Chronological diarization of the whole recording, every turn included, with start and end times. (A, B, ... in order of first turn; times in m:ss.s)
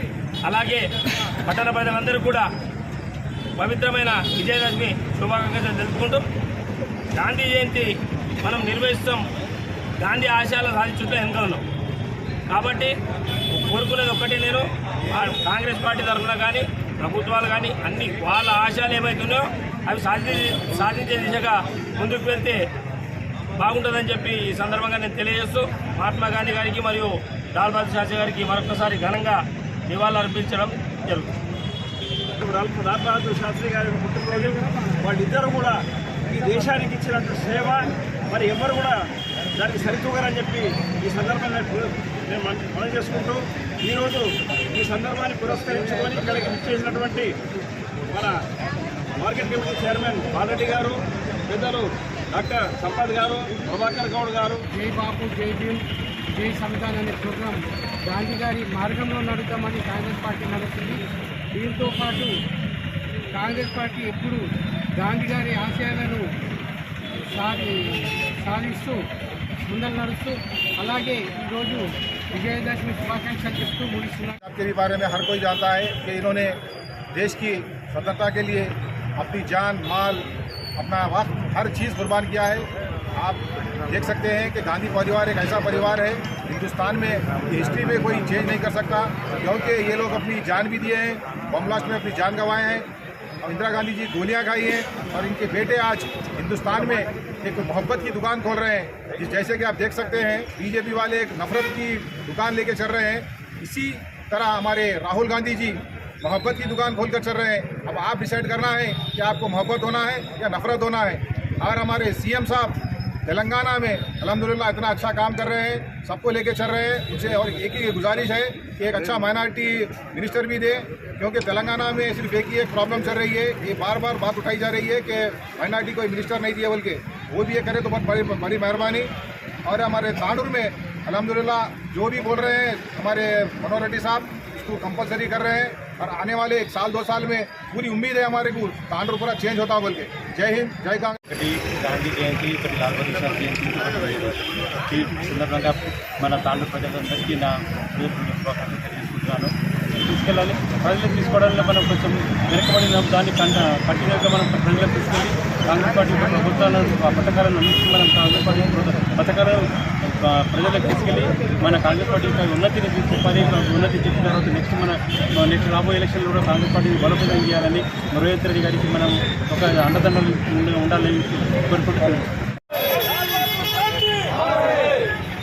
0:00.4-0:00.8 A
0:01.5-0:02.5 A
0:03.6-0:06.2 A
0:07.2-0:07.9 A
0:08.4-0:09.2 A
0:10.0-0:11.6 A
0:12.5-0:12.9 A
0:13.5-0:22.6 A
0:23.6-0:31.3 A
0:32.4-0:39.0 B
0:34.5-0:34.9 C
0:39.5-0:47.3 B
0:48.1-0:48.4 B
0:49.2-0:54.6 B
0:54.7-0:55.8 C
0:56.3-1:01.0 C
1:01.6-1:02.3 C
1:03.3-1:04.4 C
1:05.0-1:06.2 C
1:07.3-1:09.0 C
1:09.6-1:14.4 C
1:14.4-1:16.6 D
1:17.1-1:20.3 D
1:20.8-1:32.9 D
1:33.4-2:09.1 D
2:09.6-2:21.2 D
2:21.3-2:29.5 E
2:30.0-2:52.3 E
2:53.3-2:54.5 A